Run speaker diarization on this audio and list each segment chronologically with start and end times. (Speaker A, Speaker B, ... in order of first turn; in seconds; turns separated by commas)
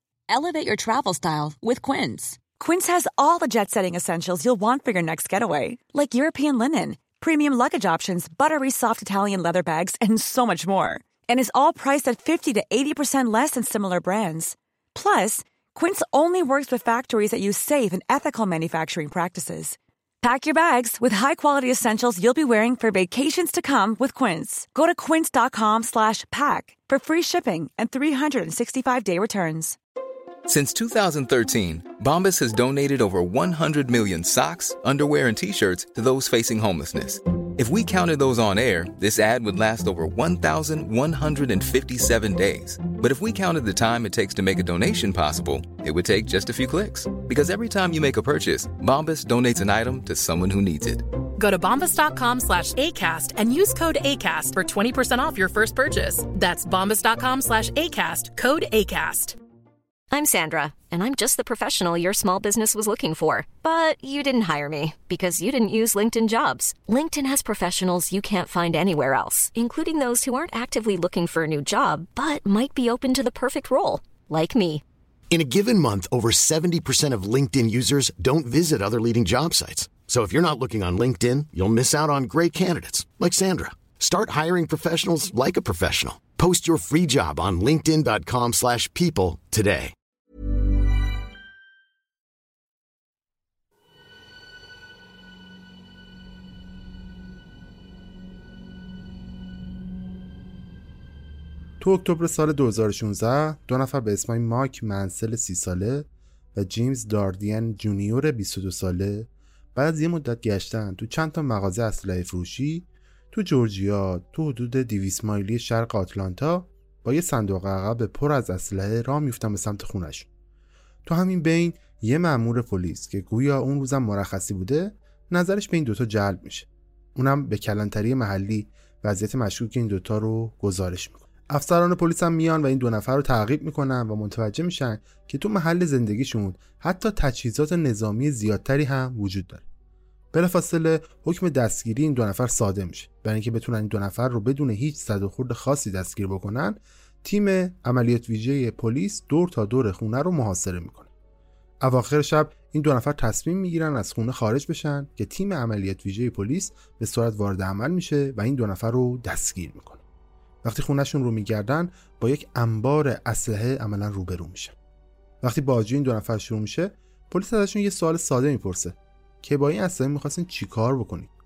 Speaker A: 0.3-2.4, Speaker B: 2.5-29.8, Speaker C: 30.4-51.1, Speaker D: 51.4-59.4, Speaker E: 60.1-74.8, Speaker F: 75.3-89.9, Speaker G: 101.8-120.3, Speaker G: 121.0-139.6, Speaker G: 140.3-151.1, Speaker G: 151.8-160.0, Speaker G: 160.6-164.7, Speaker G: 165.4-171.3